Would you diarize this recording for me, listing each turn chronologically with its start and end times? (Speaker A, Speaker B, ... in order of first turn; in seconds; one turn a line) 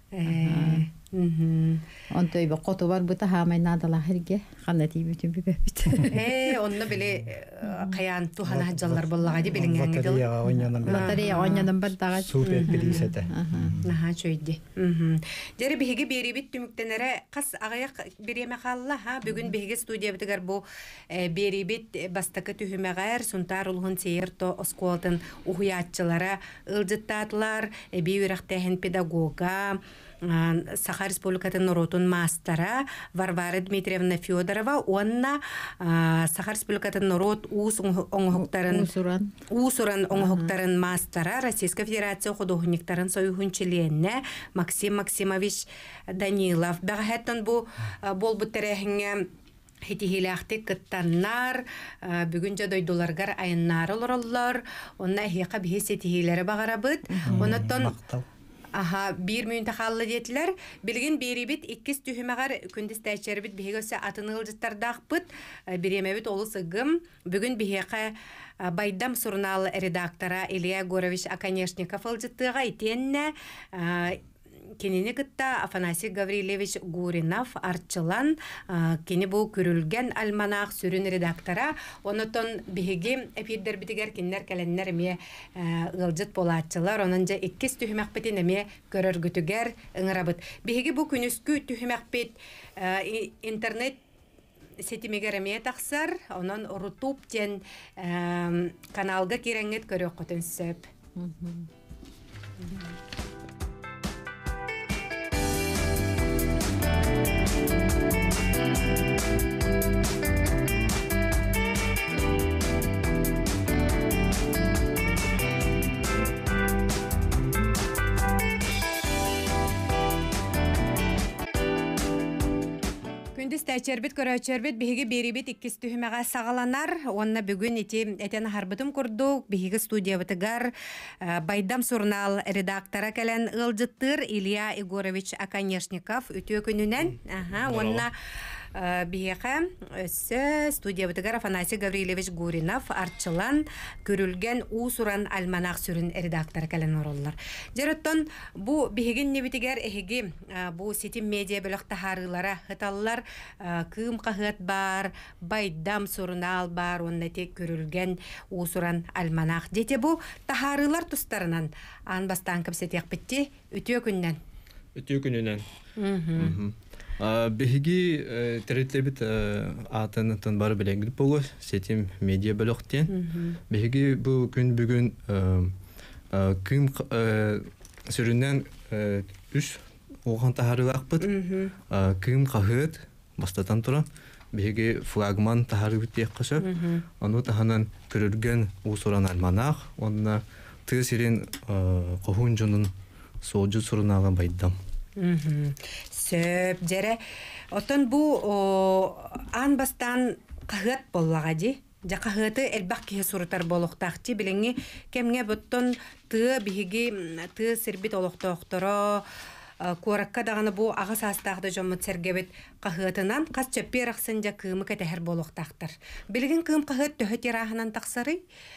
Speaker A: 0.1-1.8
Speaker B: 0.2-0.8
Speaker B: 2.1-6.5
Speaker A: 6.1-10.2
Speaker C: 8.4-13.9
Speaker B: 10.4-13.8
Speaker A: 10.9-11.7
Speaker A: 12.4-13.0
Speaker A: 13.8-38.9
Speaker B: 38.3-39.4
Speaker A: 39.5-49.3
Speaker B: 40.1-40.5
Speaker A: 49.8-57.9
Speaker B: 57.1-57.6
Speaker C: 57.2-58.3
Speaker A: 58.8-74.2
Speaker A: 74.8-94.0
Speaker A: 94.8-100.9
Speaker B: 101.2-101.7
Speaker A: 123.3-138.1
Speaker D: 137.6-138.1
Speaker A: 138.7-164.4
Speaker D: 164.9-165.6
Speaker A: 166.0-166.6
Speaker D: 166.3-173.1
Speaker A: 173.1-173.6
Speaker D: 173.7-175.7
Speaker D: 176.3-181.3
Speaker A: 181.2-181.7
Speaker D: 181.9-192.9
Speaker A: 186.6-187.0
Speaker D: 193.4-194.8
Speaker A: 195.2-197.2
Speaker A: 197.7-209.3
Speaker A: 209.8-218.4